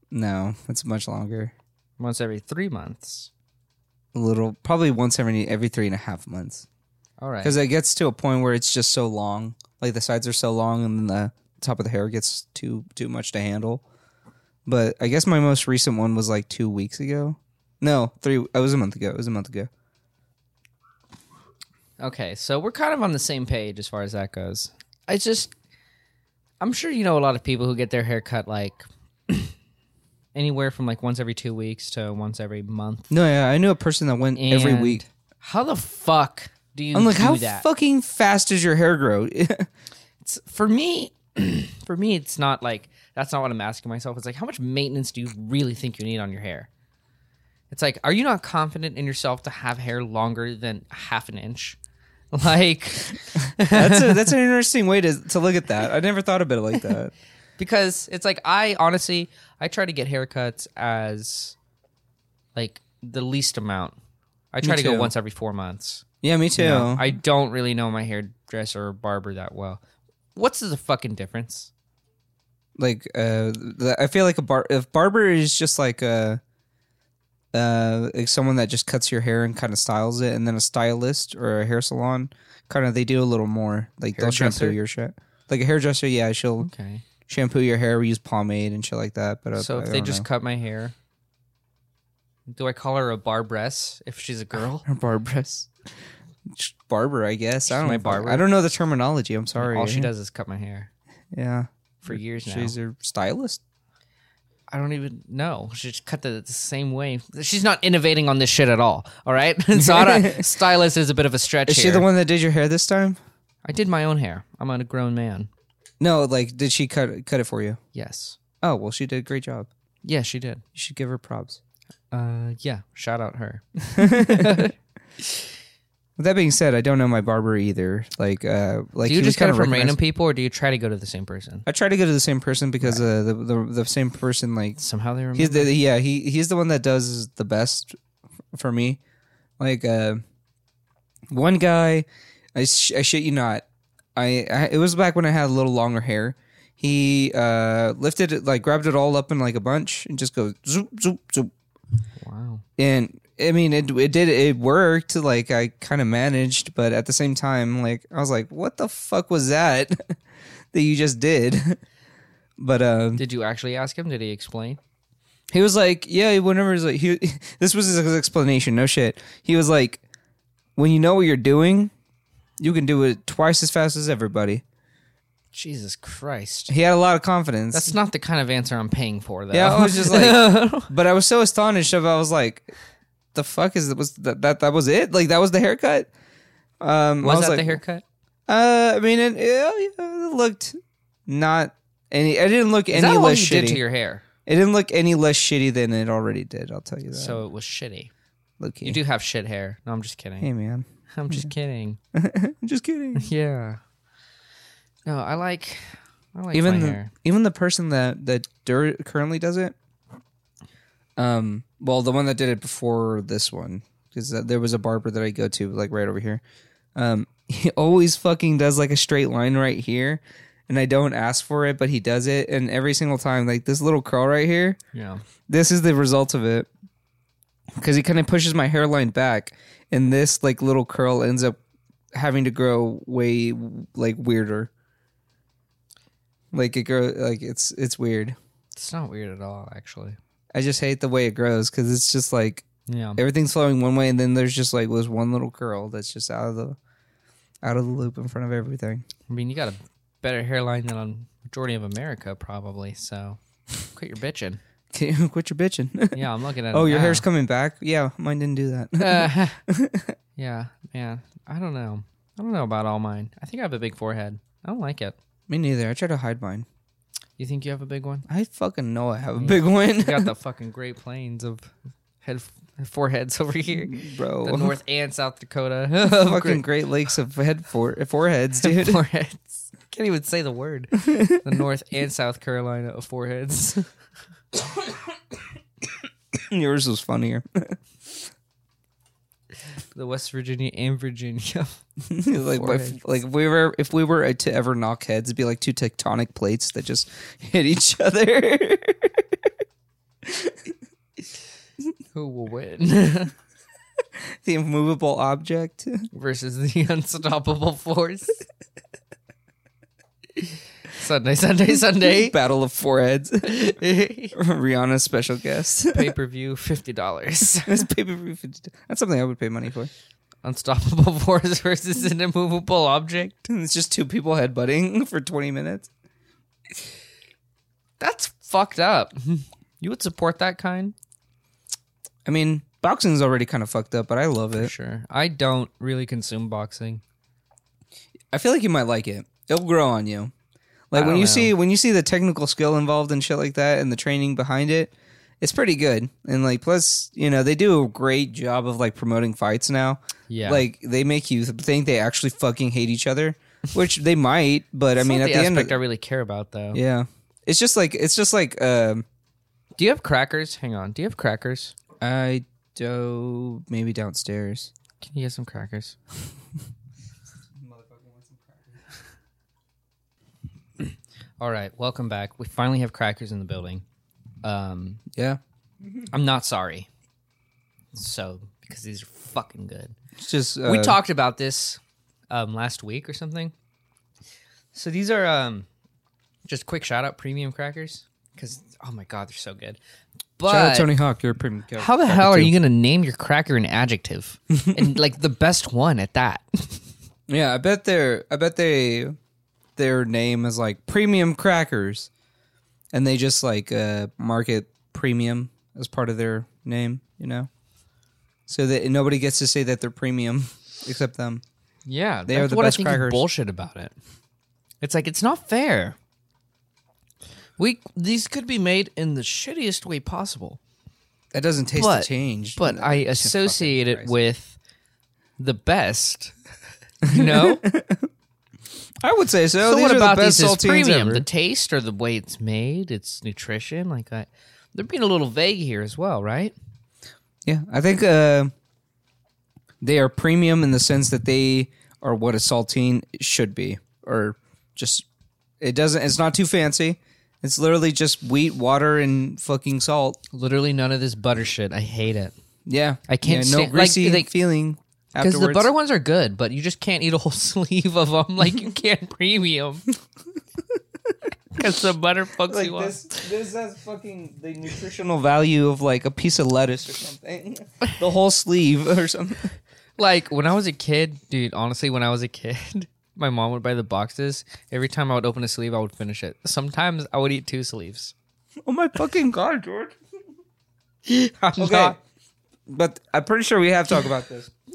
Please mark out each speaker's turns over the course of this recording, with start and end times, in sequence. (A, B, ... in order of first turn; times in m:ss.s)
0:00.1-0:01.5 A
0:02.0-0:03.3 B
0:04.1-0:06.7 A
0:07.2-0:07.6 B
0:07.4-0:13.8 A
0:14.7-0:19.7 A
0:22.0-0:25.5 B
0:26.6-0:29.5 B
0:30.4-0:33.1 B
0:33.1-0:35.0 A
0:34.4-0:37.7 B
0:36.9-0:39.7 A
0:40.2-0:46.7 B
0:47.7-0:51.8 B
0:52.3-0:54.3 B
0:53.6-0:57.1 A
0:57.6-1:01.6 B
1:02.6-1:04.0 B
1:04.5-1:06.0 B
1:04.6-1:05.1 A
1:06.2-1:07.1 A
1:06.6-1:09.8 B
1:10.4-1:11.7 B
1:12.8-1:16.4 A
1:17.5-1:26.7 A
1:24.2-1:24.8 B
1:26.6-1:27.0 B
1:27.3-1:30.3 A
1:29.6-1:31.0 B
1:32.5-1:34.9 B
1:34.8-1:35.7 A
1:36.5-1:40.1 A
1:37.7-1:38.4 B
1:39.6-1:40.9 B
1:41.3-1:43.6 A
1:42.0-1:42.8 B
1:44.7-1:52.1 B
1:49.8-1:50.6 A
1:51.7-1:53.2 A
1:53.6-1:55.5 B
1:56.0-1:57.8 A
1:57.9-1:58.4 B
1:58.6-1:59.7 A
2:00.0-2:00.6 B
2:00.8-2:01.6 A
2:02.1-2:04.7 B
2:04.0-2:04.7 A
2:06.2-2:10.0 A
2:09.0-2:11.7 B
2:11.7-2:14.8 A
2:14.8-2:15.7 B
2:15.4-2:17.9 A
2:18.5-2:19.0 A
2:19.6-2:20.2 A
2:21.3-2:23.6 A
2:24.2-2:31.5 A
2:32.2-2:32.6 B
2:32.8-2:40.2 A
2:40.7-2:41.8 A
2:42.6-2:43.2 A
2:43.2-2:44.8 B
2:45.5-2:50.0 A
2:50.8-2:51.9 A
2:52.6-2:54.6 A
2:55.5-2:56.7 B
2:56.7-2:57.9 A
2:57.7-3:00.9 B
2:59.5-3:02.7 A
3:03.3-3:06.1 A
3:06.8-3:07.8 A
3:07.2-3:08.0 B
3:08.5-3:13.8 A
3:12.9-3:14.2 B
3:14.5-3:17.4 A
3:17.1-3:18.1 B
3:18.6-3:19.0 A
3:18.8-3:20.5 B
3:20.4-3:21.5 A
3:21.1-3:22.0 B
3:22.1-3:23.3 A
3:23.2-3:23.8 B
3:25.1-3:27.1 B
3:26.5-3:29.8 A
3:31.2-3:36.4 A
3:37.0-3:44.8 A
3:44.9-3:45.2 B
3:45.5-3:46.7 A
3:47.8-3:51.6 A
3:52.2-3:54.7 A
3:56.5-3:58.4 A
3:58.8-4:00.2 B
4:00.5-4:02.7 A
4:02.9-4:03.2 B
4:03.2-4:06.8 A
4:07.6-4:09.0 A
4:09.3-4:13.4 B
4:13.9-4:14.6 B
4:14.9-4:20.2 A
4:16.1-4:17.3 B
4:19.0-4:19.6 B
4:20.4-4:25.2 B
4:25.5-4:26.7 A
4:27.4-4:28.3 B
4:28.3-4:30.3 A
4:29.4-4:31.7 B
4:32.2-4:36.6 B
4:33.7-4:34.8 A
4:36.0-4:39.0 A
4:38.6-4:43.9 B
4:41.0-4:41.4 A
4:46.4-4:47.8 A
4:50.0-4:51.7 B
4:52.1-4:59.3 A
4:52.4-4:53.0 B
5:00.2-5:00.7 A
5:02.1-5:03.3 B
5:04.4-5:06.1 A
5:06.1-5:08.4 B
5:10.4-5:12.4 B
5:12.0-5:13.8 A
5:13.4-5:14.4 B
5:14.3-5:16.2 A
5:15.9-5:17.9 B
5:17.6-5:19.9 A
5:20.4-5:23.5 B
5:23.5-5:25.9 A
5:28.0-5:31.0 B
5:32.3-5:34.7 A
5:34.6-5:37.0 B
5:38.3-5:40.3 A
5:40.9-5:55.8 A
5:40.9-5:41.5 B
5:50.3-5:50.7 B
5:55.0-5:56.8 B
5:56.7-5:59.0 A
5:59.8-6:01.8 B
6:02.0-6:04.7 A
6:05.0-6:06.0 B
6:07.6-6:08.8 A
6:11.4-6:13.8 B
6:14.4-6:15.0 B
6:15.2-6:16.1 A
6:16.1-6:16.9 B
6:17.9-6:20.0 B
6:20.2-6:21.0 A
6:20.6-6:23.5 B
6:24.7-6:25.7 B
6:26.5-6:29.8 B
6:30.4-6:30.9 B
6:30.5-6:32.6 A
6:31.8-6:36.8 B
6:34.5-6:35.0 A
6:37.3-6:39.2 A
6:39.8-6:42.1 A
6:42.9-6:47.5 A
6:48.5-6:51.4 A
6:51.9-6:53.9 B
6:52.3-6:53.2 A
6:54.8-6:56.0 B
6:57.6-7:00.6 B
7:01.3-7:04.1 A
7:01.8-7:04.6 B
7:05.4-7:06.3 B
7:07.0-7:08.1 A
7:07.0-7:07.6 B
7:09.0-7:11.3 A
7:09.6-7:16.6 B
7:17.4-7:18.5 A
7:19.8-7:25.1 A
7:25.6-7:30.2 A
7:30.3-7:32.3 B
7:32.7-7:35.7 A
7:33.1-7:34.3 B
7:35.2-7:39.8 B
7:41.5-7:43.0 B
7:42.5-7:49.5 A
7:50.0-7:58.1 B
7:58.7-8:00.0 A
8:01.1-8:02.0 B
8:01.6-8:02.0 A
8:02.7-8:04.5 A